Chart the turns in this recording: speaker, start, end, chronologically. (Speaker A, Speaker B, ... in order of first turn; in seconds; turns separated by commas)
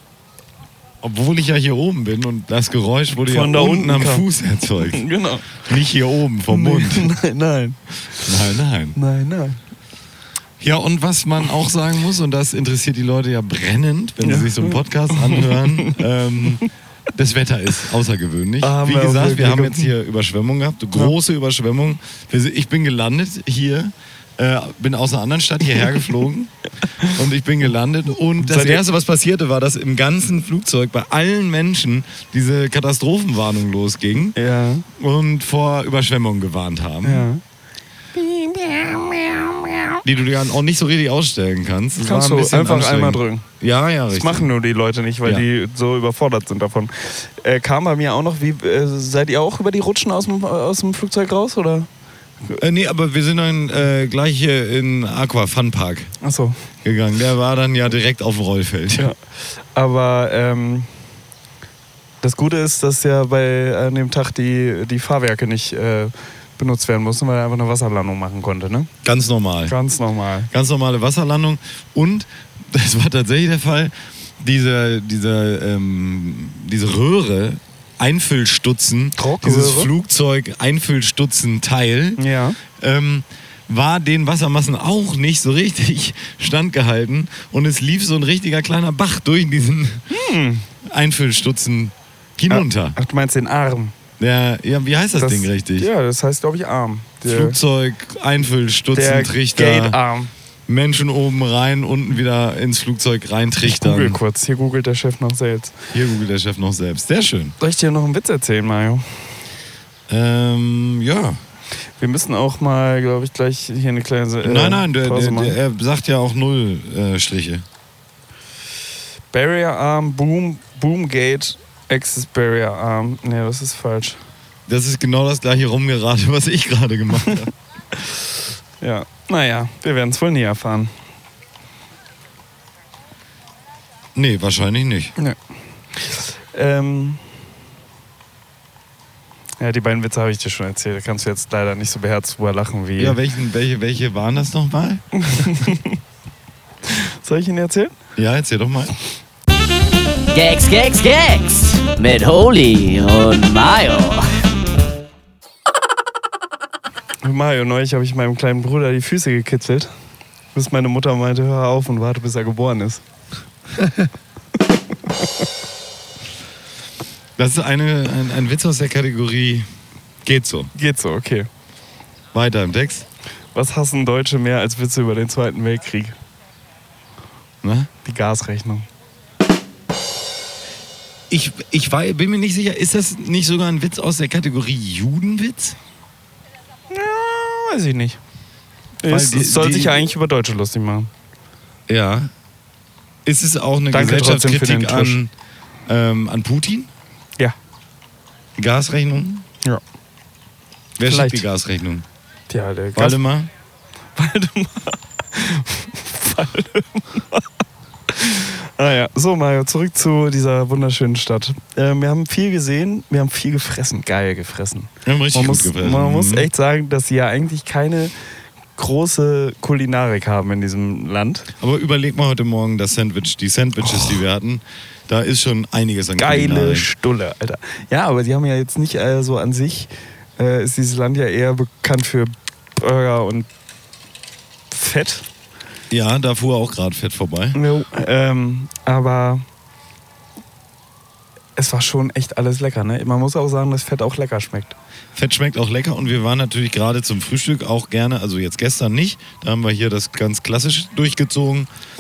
Speaker A: 1.0-5.0, Speaker B: 3.3-4.3, Speaker B: 4.9-5.6, Speaker A: 5.6-7.1, Speaker B: 6.5-8.3, Speaker A: 8.2-9.0, Speaker B: 8.9-9.6, Speaker A: 10.6-34.4, Speaker B: 14.2-16.0, Speaker B: 18.6-19.9, Speaker B: 28.4-28.8, Speaker B: 34.4-34.9, Speaker A: 35.0-37.3, Speaker B: 37.0-37.4, Speaker A: 38.1-39.4, Speaker A: 40.0-44.5, Speaker B: 42.0-43.5, Speaker B: 44.1-51.9, Speaker A: 52.6-56.1, Speaker B: 56.2-56.6, Speaker A: 56.8-59.1, Speaker B: 58.9-59.2, Speaker B: 59.8-60.9, Speaker B: 62.2-68.9, Speaker A: 69.0-69.8, Speaker B: 69.7-70.5, Speaker A: 70.5-90.1, Speaker B: 79.2-79.9, Speaker B: 82.2-82.6, Speaker B: 90.1-90.7, Speaker A: 90.8-93.0, Speaker B: 92.5-93.9, Speaker A: 94.2-95.9, Speaker B: 95.2-97.6, Speaker A: 97.3-100.0, Speaker B: 98.9-100.3, Speaker A: 100.7-104.2, Speaker B: 103.6-105.8, Speaker A: 105.9-107.6, Speaker B: 107.6-109.2, Speaker A: 110.1-111.4, Speaker B: 112.0-115.6, Speaker A: 114.4-117.7, Speaker B: 119.3-124.2, Speaker A: 124.7-127.5, Speaker B: 128.8-130.9, Speaker A: 134.2-135.2, Speaker B: 135.9-137.2, Speaker B: 139.6-143.2, Speaker A: 143.0-145.6, Speaker B: 145.2-146.0, Speaker B: 146.9-147.9, Speaker A: 148.2-148.9, Speaker C: 150.3-154.4, Speaker B: 157.2-159.9, Speaker B: 160.5-163.0, Speaker A: 163.8-164.1, Speaker A: 167.4-169.7, Speaker A: 170.2-170.7, Speaker B: 170.7-171.5, Speaker A: 172.3-173.1, Speaker B: 173.6-176.2, Speaker A: 177.6-177.9, Speaker B: 178.1-178.9, Speaker A: 181.3-185.8, Speaker B: 186.9-188.2, Speaker B: 189.0-191.1, Speaker A: 189.1-190.1, Speaker A: 191.9-192.3, Speaker A: 193.2-195.3, Speaker B: 193.9-195.2, Speaker A: 195.9-196.9, Speaker A: 198.6-199.5, Speaker A: 201.0-202.1, Speaker B: 201.0-201.4, Speaker B: 202.5-203.2, Speaker A: 202.9-203.5, Speaker B: 204.2-207.5, Speaker B: 208.1-218.1, Speaker A: 215.1-216.5, Speaker B: 218.8-221.5, Speaker A: 221.6-226.9, Speaker B: 226.2-233.5, Speaker B: 234.7-235.3, Speaker A: 235.9-237.6, Speaker B: 237.5-239.4, Speaker B: 241.6-244.8, Speaker A: 245.2-251.7